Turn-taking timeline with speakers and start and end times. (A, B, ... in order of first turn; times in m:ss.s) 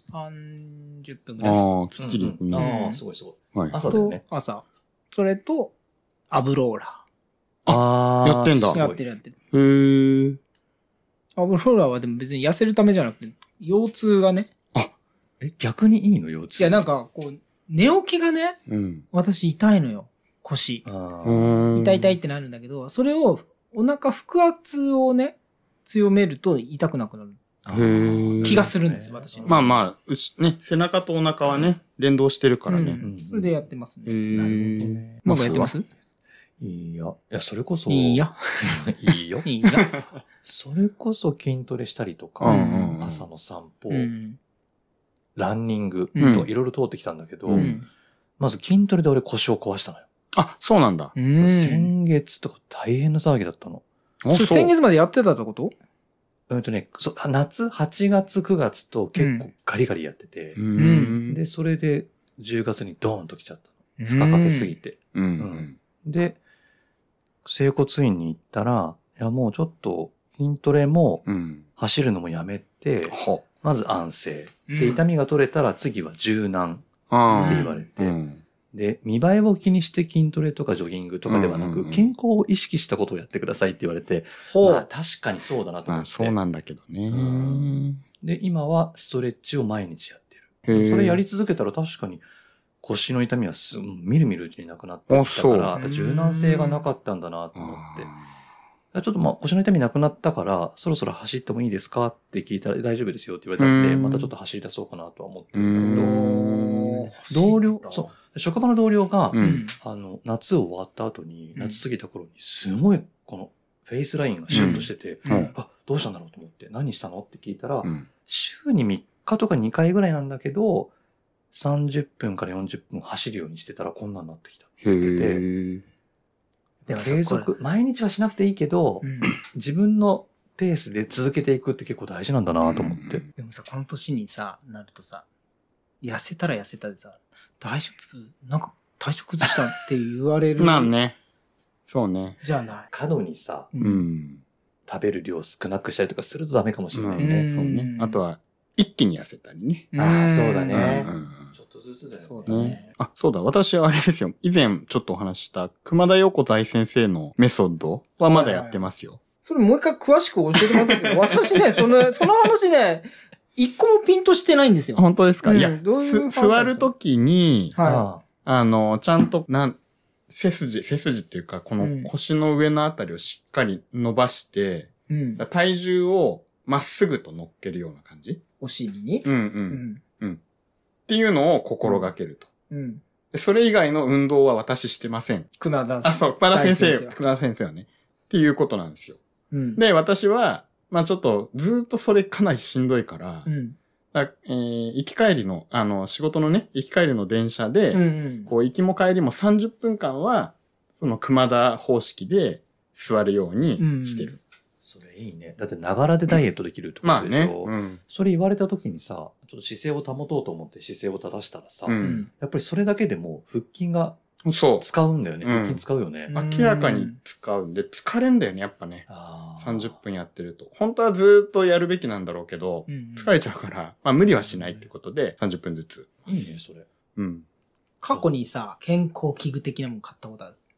0:00.1-0:01.6 A
0:01.4-0:02.7 B
0:02.0-0:04.2 C
0:02.5-0:03.0 A
0:03.8-0:05.7 A
0:06.3-0:07.0 A
0:07.7-0:08.8 B
0:07.7-0:09.0 C
0:08.7-0:09.4 A
0:09.5-0:10.4 B
0:11.4-0:14.5 A
0:15.4-0:16.9 C
0:16.6-0:18.6 A
0:18.7-0:19.0 B
0:19.1-0:20.8 A
0:20.8-0:21.6 C
0:21.2-0:22.2 B
0:21.7-0:27.4 A
0:27.6-0:29.8 C
0:27.7-0:28.7 B
0:28.4-0:29.7 A
0:29.5-0:33.0 B
0:32.7-0:34.2 A
0:33.0-0:33.6 C
0:34.1-0:35.7 B
0:34.3-0:35.2 C
0:35.2-0:35.9 A
0:36.6-0:39.5 C
0:37.9-0:38.9 A
0:39.4-0:40.1 A
0:39.7-0:40.0 B
0:40.4-0:44.1 C
0:42.4-0:43.0 A
0:42.4-0:43.2 B
0:43.9-0:44.4 A
0:45.4-0:47.7 C
0:46.2-0:46.5 A
0:46.2-0:46.5 B
0:47.5-0:47.8 B
0:47.5-0:47.9 A
0:48.4-0:50.1 C
0:50.3-0:51.1 B
0:51.2-0:51.9 A
0:51.4-0:53.8 C
0:54.2-0:54.7 B
0:54.3-0:55.7 A
0:56.5-1:00.7 C
0:59.2-0:59.5 A
1:00.6-1:01.4 B
1:00.7-1:01.2 A
1:01.3-1:06.4 C
1:04.0-1:04.8 A
1:05.1-1:05.8 B
1:07.4-1:18.2 C
1:11.3-1:11.6 B
1:13.1-1:13.4 B
1:14.7-1:15.0 A
1:17.1-1:18.4 B
1:17.3-1:17.8 A
1:18.7-1:26.4 C
1:21.3-1:22.1 B
1:24.5-1:24.9 A
1:25.9-1:28.0 B
1:27.1-1:32.2 C
1:30.6-1:31.2 B
1:32.8-1:38.1 C
1:35.1-1:35.8 B
1:35.7-1:36.6 A
1:37.6-1:38.2 B
1:38.9-1:46.2 C
1:43.6-1:44.3 B
1:45.6-1:47.1 B
1:45.8-1:48.1 A
1:46.8-2:00.9 C
1:49.3-1:49.7 B
1:49.4-1:49.8 A
1:54.5-1:55.5 B
1:54.5-1:55.5 A
2:01.5-2:05.4 C
2:04.8-2:05.8 B
2:06.8-2:13.2 C
2:06.9-2:07.5 A
2:09.0-2:09.4 A
2:12.6-2:13.2 B
2:13.4-2:15.2 A
2:16.0-2:21.0 A
2:20.6-2:21.2 B
2:21.9-2:22.4 B
2:22.4-2:22.9 A
2:22.9-2:23.7 C
2:23.7-2:24.1 A
2:23.8-2:24.4 B
2:24.9-2:27.5 C
2:26.9-2:29.9 B
2:27.2-2:28.2 A
2:29.9-2:31.1 A
2:30.0-2:32.9 C
2:30.7-2:31.5 B
2:32.2-2:32.9 A
2:32.5-2:39.2 B
2:38.3-2:38.8 A
2:39.4-2:46.9 A
2:40.6-2:42.1 B
2:45.0-2:47.8 B
2:47.7-2:48.1 A
2:47.8-2:48.2 C
2:48.4-2:49.8 B
2:50.3-2:58.4 B
2:51.8-2:52.1 A
2:55.1-2:55.4 A
2:58.6-3:00.0 A
2:59.2-3:00.4 B
3:01.1-3:02.5 B
3:01.8-3:02.1 A
3:02.7-3:03.0 A
3:03.3-3:05.5 B
3:05.6-3:07.2 A
3:06.0-3:09.2 B
3:09.5-3:09.8 A
3:09.8-3:13.5 B
3:13.5-3:13.8 A
3:14.1-3:24.4 B
3:17.9-3:18.5 A
3:23.8-3:24.4 A
3:24.8-3:34.2 C
3:27.0-3:28.0 B
3:31.9-3:32.2 B
3:32.0-3:32.3 A
3:34.5-3:34.9 B
3:34.8-3:36.3 C
3:35.4-3:39.1 B
3:36.3-3:37.2 A
3:39.1-3:40.0 C
3:39.6-3:46.6 B
3:42.9-3:43.3 A
3:44.4-3:44.9 C
3:46.3-3:46.9 C
3:47.2-3:47.5 B
3:48.0-3:50.6 A